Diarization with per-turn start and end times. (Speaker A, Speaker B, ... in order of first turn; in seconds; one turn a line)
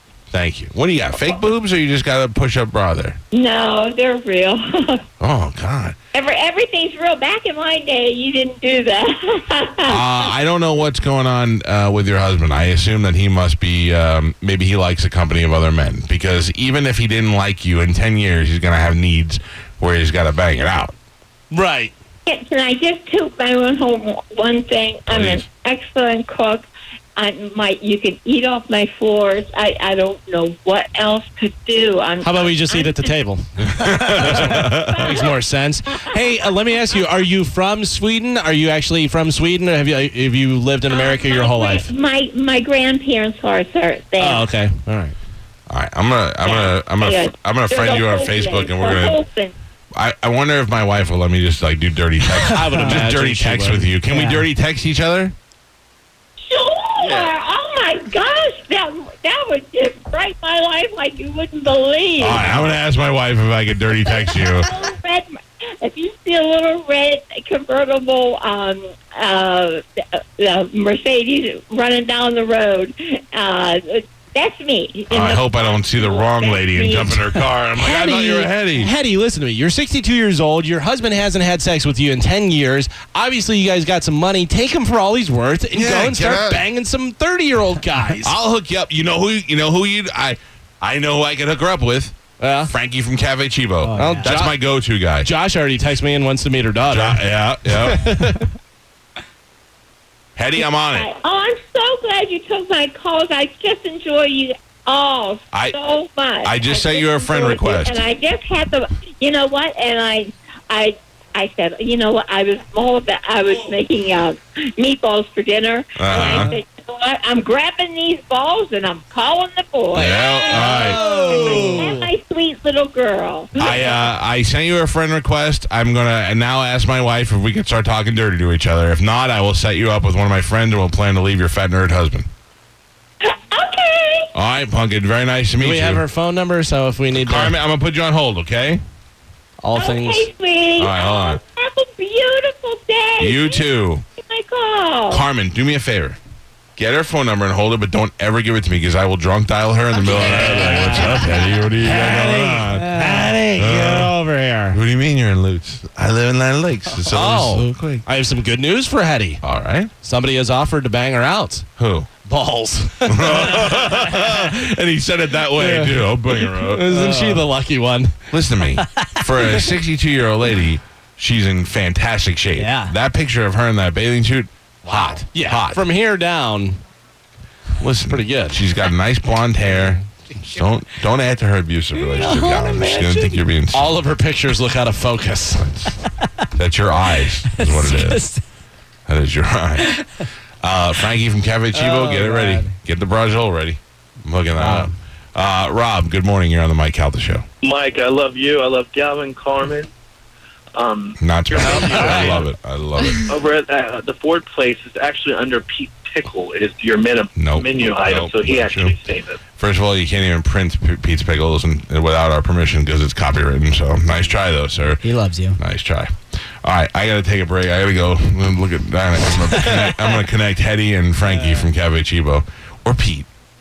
Speaker A: 0.3-3.2
Speaker B: 3.3-5.0
Speaker A: 5.2-6.0
Speaker B: 6.1-10.1
Speaker A: 9.9-20.9
Speaker C: 21.5-21.9
Speaker B: 22.3-33.1
Speaker A: 25.1-25.4
Speaker C: 32.2-41.9
Speaker A: 33.8-35.2
Speaker B: 34.2-35.4
Speaker B: 40.9-44.4
Speaker C: 44.2-45.1
Speaker A: 45.7-49.2
Speaker B: 46.4-49.5
Speaker A: 50.0-55.3
Speaker C: 52.5-54.0
Speaker D: 52.5-53.0
Speaker D: 54.0-54.5
Speaker B: 56.5-62.5
Speaker A: 57.0-57.3
Speaker A: 62.2-64.7
Speaker C: 62.4-62.7
Speaker B: 64.0-65.3
Speaker B: 65.8-77.4
Speaker A: 75.1-78.9
Speaker C: 77.8-88.3
Speaker A: 85.7-86.7
Speaker A: 88.2-92.2
Speaker C: 92.4-92.7
Speaker A: 92.7-95.3
Speaker D: 93.8-94.3
Speaker C: 94.0-94.6
Speaker C: 95.2-98.5
Speaker A: 96.9-98.0
Speaker A: 100.4-101.1
Speaker B: 100.9-124.0
Speaker A: 106.4-108.0
Speaker A: 116.0-116.5
Speaker A: 120.0-121.9
Speaker D: 120.6-121.9
Speaker C: 121.5-122.0
Speaker A: 123.6-132.3
Speaker B: 133.2-134.3
Speaker A: 134.3-136.0
Speaker C: 135.6-137.6
Speaker A: 137.2-138.8
Speaker C: 139.6-140.3
Speaker B: 139.7-143.7
Speaker A: 140.8-141.4
Speaker A: 143.2-144.0
Speaker B: 144.2-145.3
Speaker A: 145.1-146.2
Speaker A: 146.8-154.1
Speaker C: 150.0-154.8
Speaker A: 154.7-158.0
Speaker C: 157.0-159.4
Speaker A: 159.4-159.9
Speaker C: 160.0-161.7
Speaker A: 161.8-162.1
Speaker C: 162.3-164.4
Speaker A: 163.1-166.9
Speaker C: 165.6-168.1
Speaker D: 166.9-167.4
Speaker A: 168.3-175.8
Speaker C: 169.4-169.8
Speaker D: 172.6-172.9
Speaker C: 175.3-176.8
Speaker A: 177.8-184.0
Speaker C: 178.1-178.6
Speaker D: 182.0-183.4
Speaker C: 183.7-185.8
Speaker A: 185.6-185.9
Speaker A: 186.5-188.3
Speaker D: 187.5-188.4
Speaker A: 189.1-190.0
Speaker A: 190.6-197.4
Speaker D: 191.7-192.7
Speaker C: 194.6-194.9
Speaker E: 197.6-199.9
Speaker E: 200.7-202.5
Speaker A: 201.2-203.4
Speaker E: 203.3-209.4
Speaker A: 207.4-209.0
Speaker A: 209.6-223.3
Speaker D: 215.0-215.6